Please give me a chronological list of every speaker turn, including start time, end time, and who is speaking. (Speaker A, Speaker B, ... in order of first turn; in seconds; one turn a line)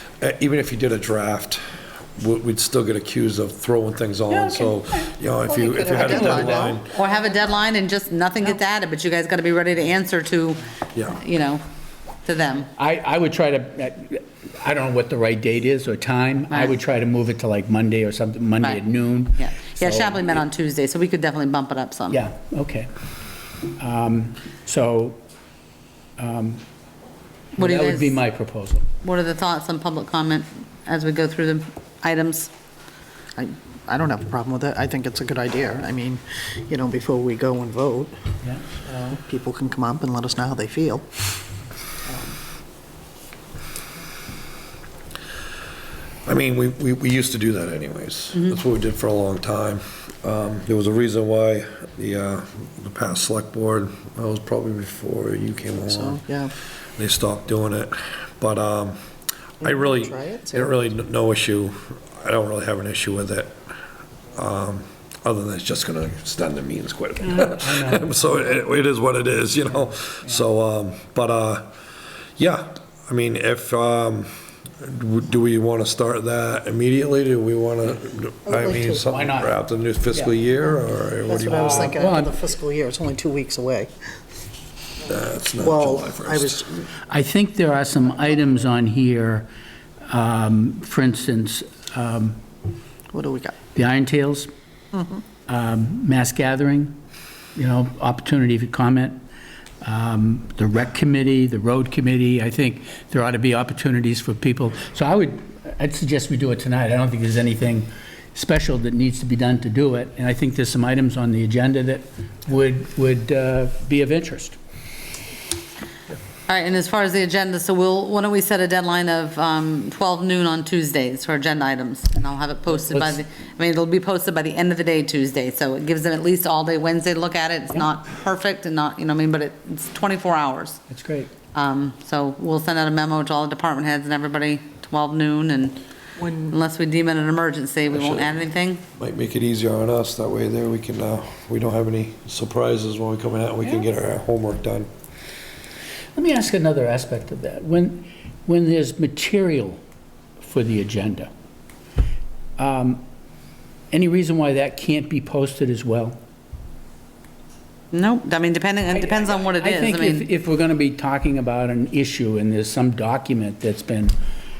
Speaker A: 0.2-1.6
Speaker A: 2.1-6.9
Speaker B: 4.3-5.1
Speaker C: 5.5-6.8
Speaker D: 6.9-11.6
Speaker D: 12.2-12.7
Speaker B: 12.8-20.2
Speaker D: 19.4-22.2
Speaker B: 22.1-22.9
Speaker B: 23.8-25.2
Speaker B: 26.2-26.6
Speaker B: 27.6-28.9
Speaker D: 27.6-28.1
Speaker D: 29.0-32.5
Speaker C: 33.4-38.1
Speaker C: 38.9-41.1
Speaker C: 42.0-42.3
Speaker A: 46.2-56.2
Speaker C: 55.9-56.5
Speaker A: 57.0-58.9
Speaker C: 59.6-60.7
Speaker A: 59.6-63.6
Speaker A: 64.3-71.6
Speaker B: 67.2-68.6
Speaker A: 72.4-82.0
Speaker C: 78.5-79.0
Speaker B: 79.0-79.5
Speaker C: 81.3-83.9
Speaker B: 81.5-82.4
Speaker A: 85.0-86.7
Speaker C: 85.6-86.8
Speaker B: 87.1-89.5
Speaker B: 90.0-92.4
Speaker C: 93.1-93.5
Speaker B: 93.7-94.5
Speaker C: 94.9-95.2
Speaker B: 95.5-97.0
Speaker B: 97.5-99.2
Speaker B: 99.8-114.6
Speaker D: 116.5-130.8
Speaker B: 122.8-123.2
Speaker B: 130.9-131.3
Speaker D: 131.5-135.8
Speaker C: 136.2-136.5
Speaker D: 136.5-138.8
Speaker A: 137.9-138.3
Speaker A: 139.0-144.9
Speaker B: 146.1-149.8
Speaker B: 150.4-151.3
Speaker B: 152.6-153.0
Speaker B: 153.9-156.2
Speaker D: 157.9-160.3
Speaker B: 158.9-164.1